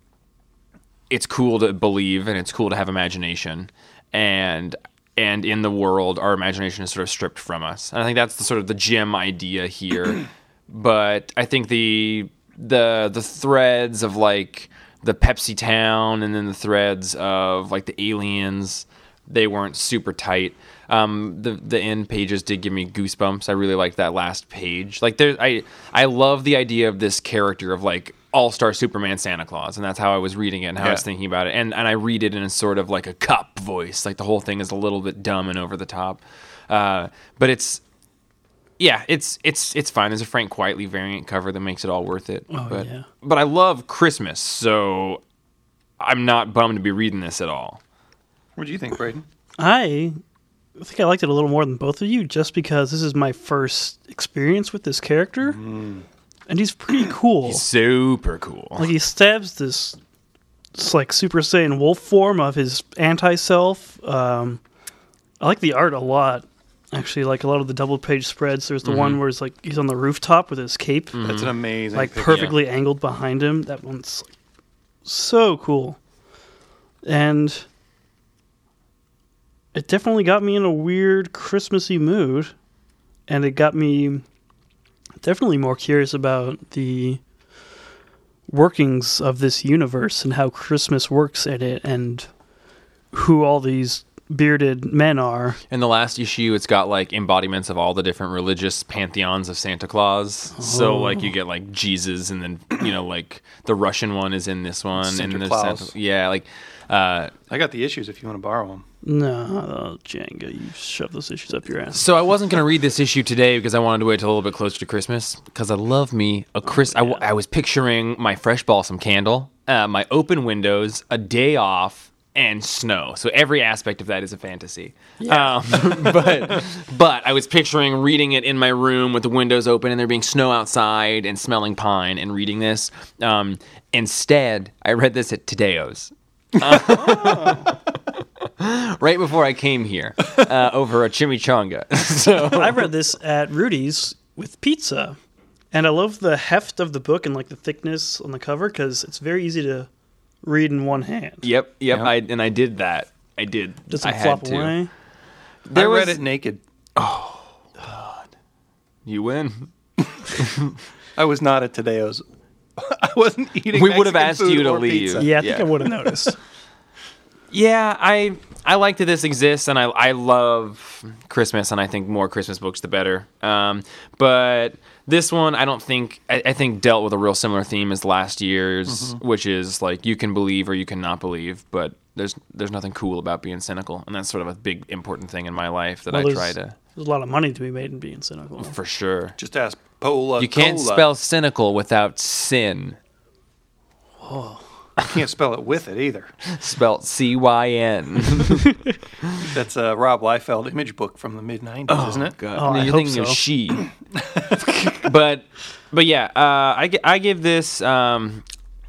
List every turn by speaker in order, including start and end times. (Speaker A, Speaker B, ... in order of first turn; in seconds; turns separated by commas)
Speaker A: 1.1-37.8, Speaker B: 30.8-31.0, Speaker A: 38.8-45.2, Speaker C: 42.5-43.0, Speaker A: 46.0-47.8, Speaker B: 48.5-49.2, Speaker C: 49.6-50.2, Speaker C: 50.8-55.6, Speaker B: 55.5-56.0, Speaker C: 56.5-57.6, Speaker A: 57.4-58.9, Speaker C: 58.8-60.0, Speaker C: 60.7-64.6, Speaker C: 65.4-71.4, Speaker A: 68.8-69.2, Speaker A: 71.1-71.5, Speaker B: 71.2-72.5, Speaker C: 71.9-74.3, Speaker A: 72.2-72.5, Speaker C: 75.0-76.0, Speaker C: 77.0-77.7, Speaker C: 79.7-82.5, Speaker C: 83.3-84.2, Speaker C: 85.2-87.2, Speaker C: 88.5-92.3, Speaker C: 93.1-95.6, Speaker A: 95.7-107.3, Speaker C: 100.6-101.3, Speaker B: 105.0-105.9, Speaker B: 107.5-108.8, Speaker C: 109.0-112.0, Speaker A: 111.9-142.9, Speaker C: 116.8-117.2, Speaker C: 125.2-126.3, Speaker B: 136.7-137.5, Speaker C: 142.4-145.2, Speaker C: 145.7-149.9, Speaker C: 150.4-151.4, Speaker A: 151.4-154.8, Speaker C: 153.9-154.9, Speaker A: 155.7-156.2, Speaker B: 155.7-156.6, Speaker A: 156.9-158.3, Speaker A: 159.1-159.7, Speaker A: 160.3-160.7, Speaker B: 161.2-162.2, Speaker B: 162.8-165.3, Speaker A: 163.7-165.8, Speaker C: 165.2-166.4, Speaker A: 167.5-186.7, Speaker B: 178.9-179.2, Speaker C: 186.1-188.7, Speaker A: 188.6-189.4, Speaker B: 189.4-191.1, Speaker A: 190.4-193.0, Speaker C: 194.2-194.6, Speaker B: 195.0-196.3, Speaker A: 196.4-199.5, Speaker B: 199.4-202.3, Speaker A: 201.9-203.9, Speaker C: 202.5-203.4, Speaker B: 204.1-204.9, Speaker A: 204.8-208.4